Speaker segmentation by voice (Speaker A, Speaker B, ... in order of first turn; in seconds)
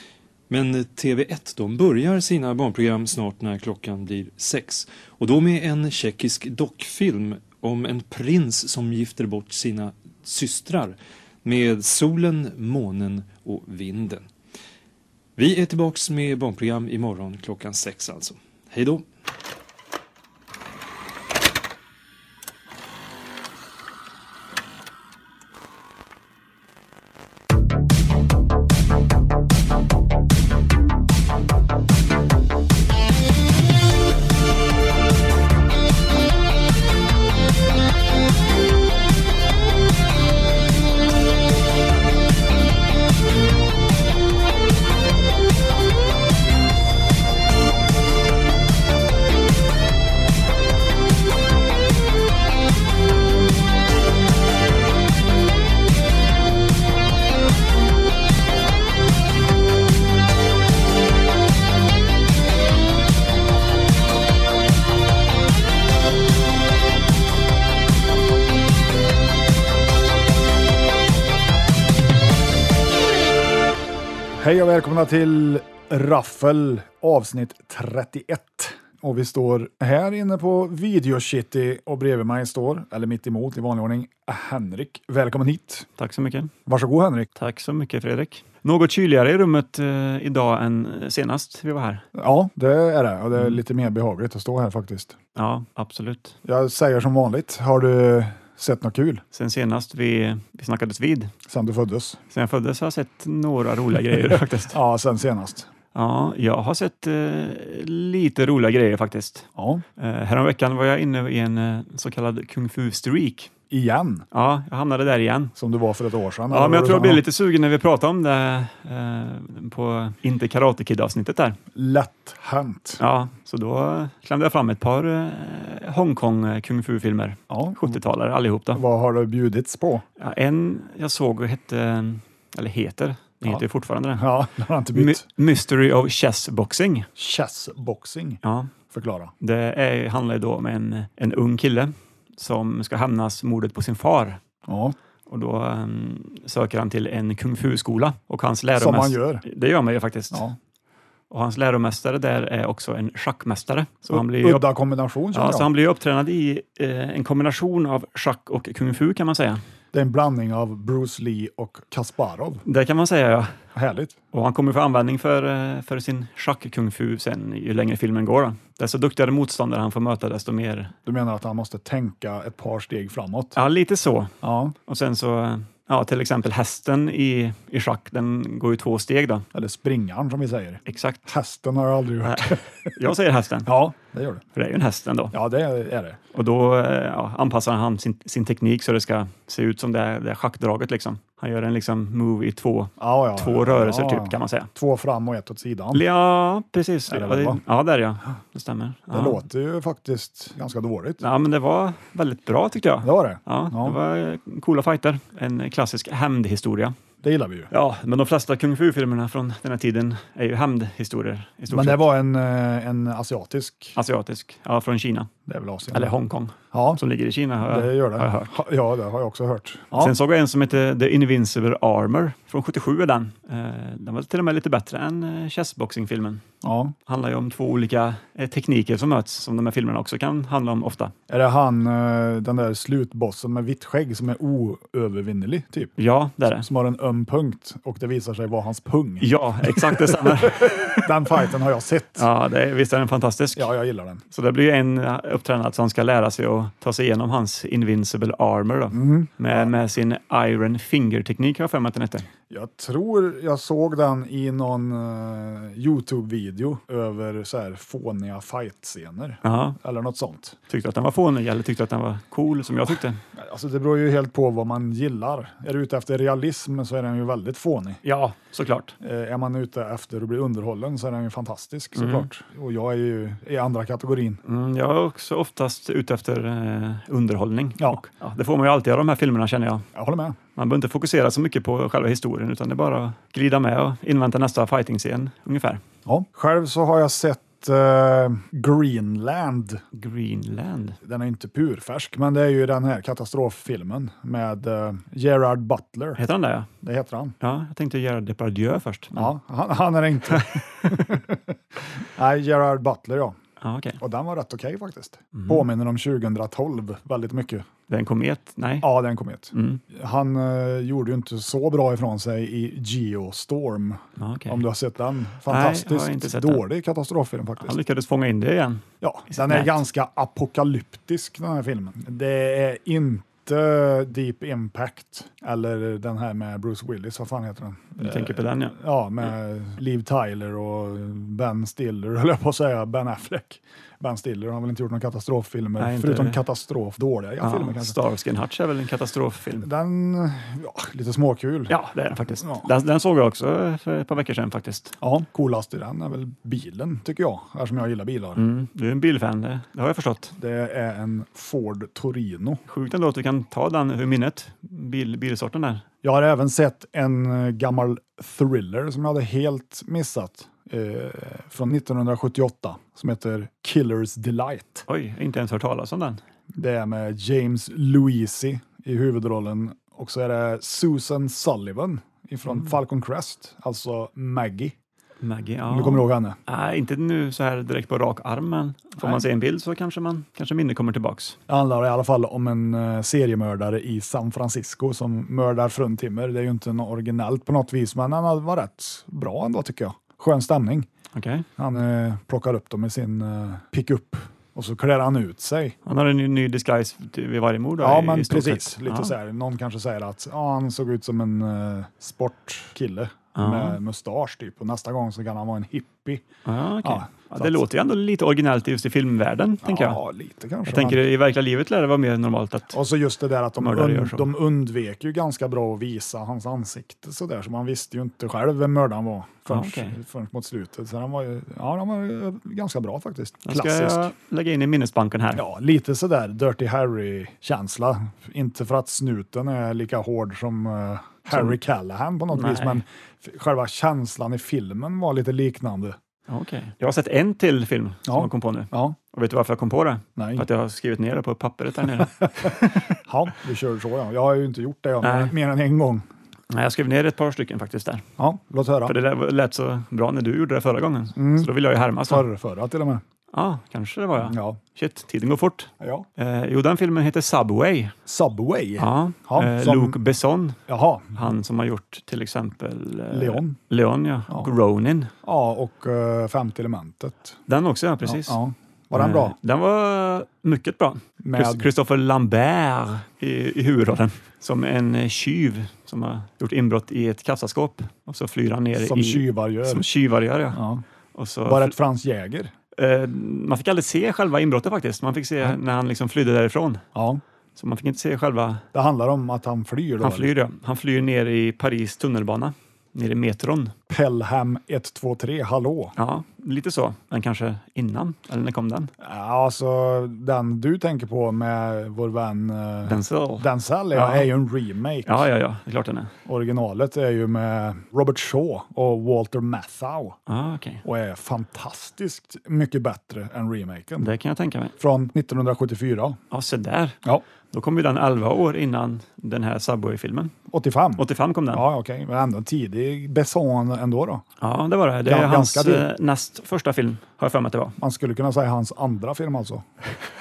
Speaker A: 0.5-14.3, 15.4-19.0
Speaker B: 74.4-85.9, 86.7-87.3, 92.2-95.2, 96.5-99.2, 101.5-102.2, 104.2-105.7, 109.6-109.8, 113.7-114.3, 115.6-117.2, 121.7-123.0, 127.5-128.0, 128.7-130.0, 134.2-135.3, 137.2-138.4, 138.9-139.3, 144.7-144.9, 148.8-149.4, 154.1-155.7, 159.9-162.6, 163.8-164.2, 171.1-173.6, 174.4-174.8, 179.5-183.0, 183.7-184.4, 185.3-186.2, 193.0-196.0, 197.1-197.6, 199.1-201.2, 203.0-204.0, 207.2-207.7, 211.7-214.0, 215.5-216.1, 216.7-217.0, 217.6-220.2, 226.6-226.9, 231.3-235.9, 236.5-242.3, 243.6-244.2, 248.9-249.7, 252.5-260.6, 263.4-268.0, 269.0-274.4, 279.9-280.4, 286.1-289.8, 291.0-296.2, 296.8-297.4, 299.2-301.6, 302.1-303.4, 304.0-307.7, 308.8-317.8, 319.0-338.0, 339.6-341.8, 342.4-342.7, 345.0-348.4, 350.4-352.6, 356.0-364.9, 366.5-374.8, 375.7-376.4, 379.0-379.3, 381.5-390.9, 391.6-395.8, 397.8-406.3, 406.8-407.7, 409.6-411.0, 412.7-424.1, 425.3-436.0, 438.1-439.0, 440.2-440.4, 443.1-446.1, 448.2-448.9, 451.2-451.5, 452.1-453.0, 454.2-454.6, 455.8-456.1, 458.1-460.0, 460.7-461.2, 463.1-463.6, 465.2-467.4, 468.0-469.4, 471.2-471.7, 478.8-479.9, 480.5-480.8, 481.4-482.5, 486.9-487.2, 488.7-490.3, 493.9-495.9, 499.0-505.3, 506.3-510.2, 510.8-514.1, 514.8-516.2, 520.5-524.2, 525.0-525.9, 527.8-529.6
Speaker C: 86.0-86.5, 87.4-92.0, 95.4-96.3, 99.3-101.3, 102.3-104.8, 105.9-113.5, 114.3-115.5, 116.5-121.6, 123.0-128.8, 130.2-134.3, 134.9-137.1, 138.4-138.7, 139.4-144.4, 145.3-150.5, 151.3-154.7, 155.3-159.6, 162.7-163.6, 164.3-170.9, 173.6-174.3, 174.9-179.5, 180.9-181.2, 182.2-183.8, 184.6-185.4, 186.3-194.7, 195.9-199.4, 201.2-206.9, 207.7-212.1, 214.0-215.3, 215.9-218.6, 219.9-226.4, 227.1-231.1, 236.0-236.7, 239.2-241.3, 242.2-243.7, 244.3-252.3, 259.4-259.8, 260.7-263.2, 268.0-268.9, 272.0-272.3, 274.4-279.9, 280.6-285.8, 289.9-291.0, 296.2-296.7, 297.4-299.3, 300.3-301.2, 303.6-304.0, 305.4-305.6, 307.9-308.9, 309.5-309.8, 314.2-314.6, 315.5-316.6, 317.6-319.8, 328.0-328.8, 335.8-336.4, 337.4-339.7, 341.7-344.9, 348.4-350.3, 352.7-355.8, 364.9-366.2, 372.5-372.7, 375.2-381.4, 391.1-391.5, 395.9-399.1, 403.4-403.8, 406.4-410.0, 410.7-412.7, 413.6-414.3, 419.5-420.0, 423.4-425.4, 431.3-431.6, 432.3-432.8, 436.3-442.9, 445.0-445.3, 446.5-448.1, 448.9-452.3, 453.3-457.9, 458.8-460.6, 461.1-465.1, 467.5-468.4, 468.9-480.6, 481.1-481.8, 482.8-486.8, 487.6-488.6, 490.0-493.7, 496.0-498.9, 502.9-504.3, 505.1-506.1, 510.3-510.8, 514.0-514.7, 516.3-517.0, 517.5-520.3, 521.0-521.7, 524.4-527.8